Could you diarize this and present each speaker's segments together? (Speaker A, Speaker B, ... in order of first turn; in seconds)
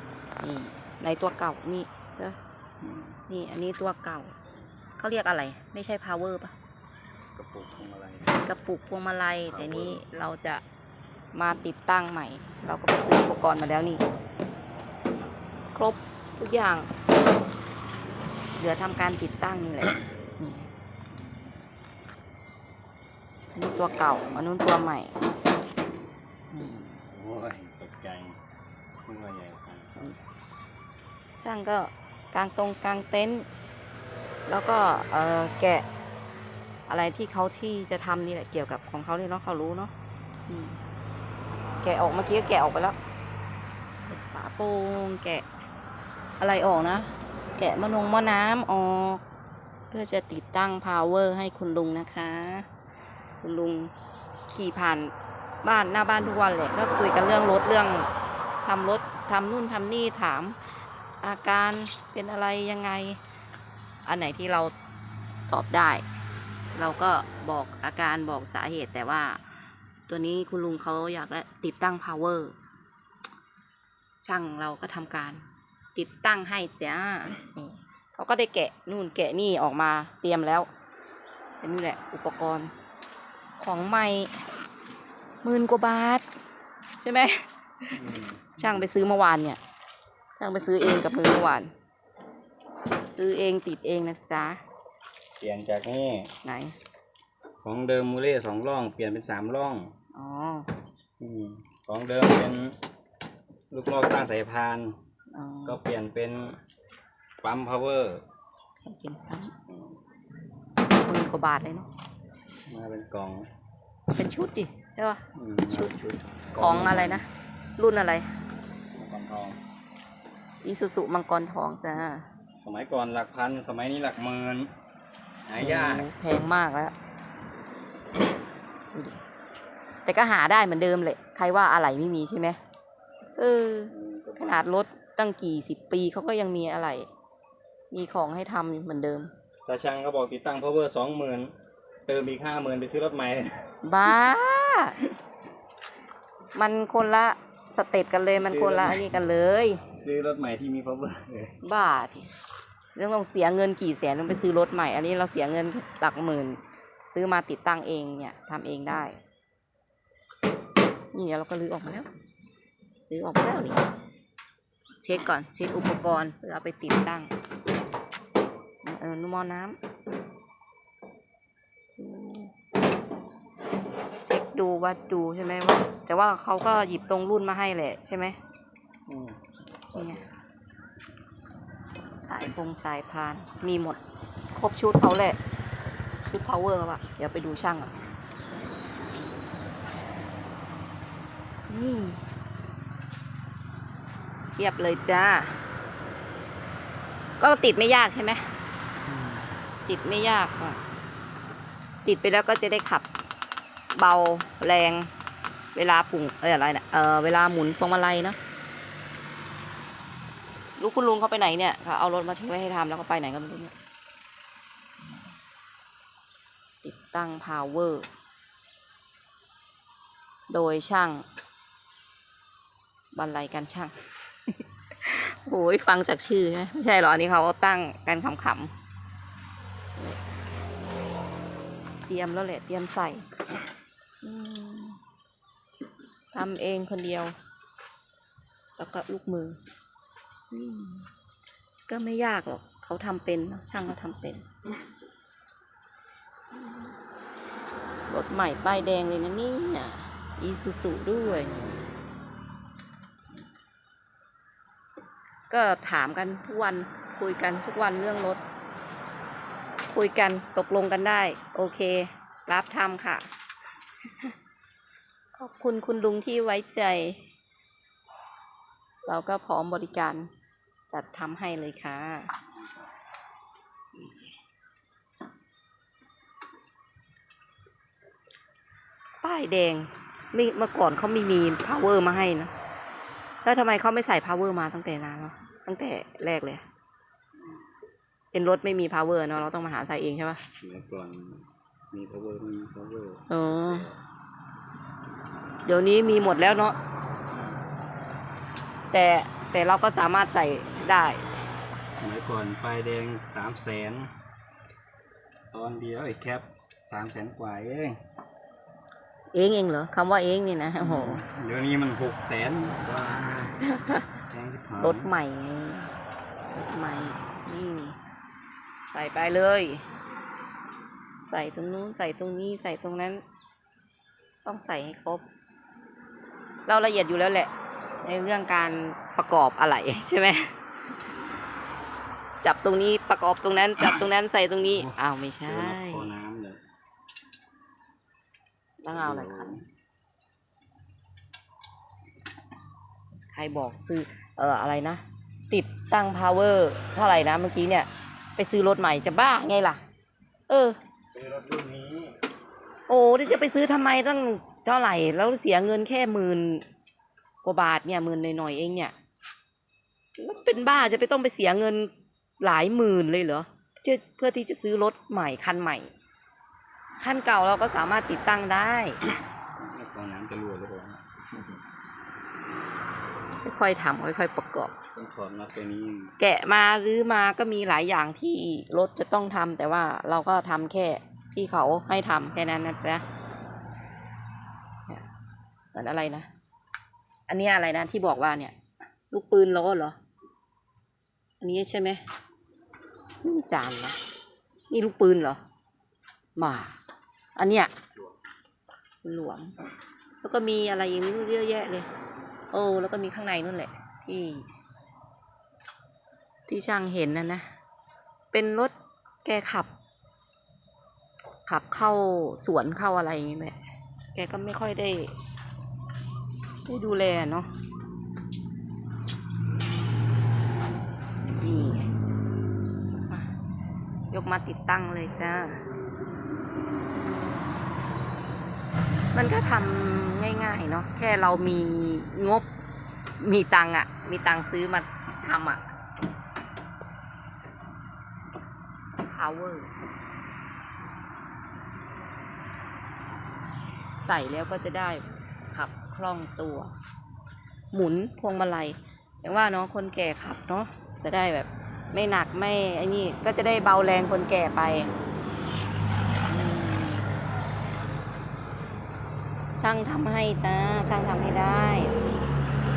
Speaker A: 0.4-2.4, 3.3-4.3, 5.0-6.5, 8.3-10.6, 11.3-14.0, 15.7-16.9, 18.6-20.7, 23.5-25.2, 26.5-26.8, 31.4-33.5, 34.5-35.9, 36.9-39.9, 40.5-40.8, 41.8-43.0, 44.0-45.5, 46.4-49.2, 49.9-52.7, 53.4-53.9, 54.5-55.1, 55.6-58.1, 58.6-60.6, 61.2-63.2, 64.1-64.7, 65.5-66.0, 66.8-69.4, 70.1-72.5, 74.2-75.4, 76.0-80.7, 81.6-82.7, 83.6-84.4, 85.4-86.2, 87.0-88.0, 88.6-89.6, 90.4-91.7, 93.1-94.6, 96.4-96.8, 100.1-100.7, 105.3-105.8, 108.8-109.5, 111.0-111.9, 114.1-115.9, 116.6-118.3, 120.6-122.3, 125.6-127.0, 128.9-129.2, 130.1-132.6, 133.4-137.1, 137.9-139.3, 143.8-145.0, 146.5-149.8, 151.6-152.3, 152.9-159.2, 161.1-162.1, 163.1-163.9, 165.0-167.3, 168.8-169.8, 172.0-172.5, 174.2-178.4, 179.9-180.2, 182.2-184.0, 184.6-185.4, 186.2-187.9, 191.7-192.2, 194.5-195.6, 197.4-198.5, 199.9-200.8, 202.1-203.1, 203.9-205.1, 205.8-208.4, 210.8-213.7, 216.8-218.1, 220.5-221.3, 223.1-223.9, 224.5-228.7, 232.1-233.3, 234.2-235.0, 236.3-237.3, 238.8-239.6, 240.5-241.1, 241.9-244.5, 248.1-251.8, 255.5-258.4, 259.9-263.3, 265.4-267.2, 269.1-270.3, 270.9-272.3, 279.2-282.5, 283.4-286.6, 288.3-290.4, 293.3-293.9, 295.6-296.8, 298.9-301.3, 309.3-311.2, 313.6-314.1, 314.8-315.9, 316.6-318.0, 318.9-319.9, 321.3-323.2, 324.4-325.2, 326.7-327.5, 328.0-330.5, 332.4-336.1, 338.8-339.6, 343.3-349.8, 350.5-350.8, 352.9-356.6, 357.4-358.9, 360.2-365.9, 367.0-369.0, 373.4-374.8, 376.2-383.0, 385.7-386.3, 387.3-388.6, 389.1-390.0, 391.4-392.0, 393.2-394.0, 394.7-395.4, 396.4-396.7, 397.4-397.7, 399.0-399.5, 400.2-401.9, 402.5-404.5, 406.5-407.5, 408.3-408.7, 409.2-409.7, 411.5-413.6, 414.1-415.1, 416.7-417.5, 421.3-421.9, 424.1-425.6, 429.1-432.5, 433.2-435.6, 439.0-439.7, 444.0-446.7, 447.7-454.9, 456.3-457.1, 459.6-461.9
Speaker B: 2.8-3.2, 7.4-8.3, 9.5-10.0, 26.6-28.4, 29.0-30.2, 87.9-88.8, 95.4-96.3, 97.6-99.9, 101.2-102.8, 103.7-105.0, 105.7-106.6, 107.4-108.2, 109.7-110.0, 112.7-113.5, 115.4-117.2, 119.0-119.6, 122.6-124.7, 125.5-126.1, 133.9-134.7, 139.7-141.5, 142.1-143.8, 148.4-149.1, 149.9-151.6, 179.1-179.4, 179.9-180.3, 199.1-199.4, 290.6-294.0, 302.0-304.1, 305.5-308.0, 310.8-313.6, 314.3-315.1, 334.7-336.6, 338.9-339.6, 351.1-352.2, 369.6-371.0, 374.9-376.1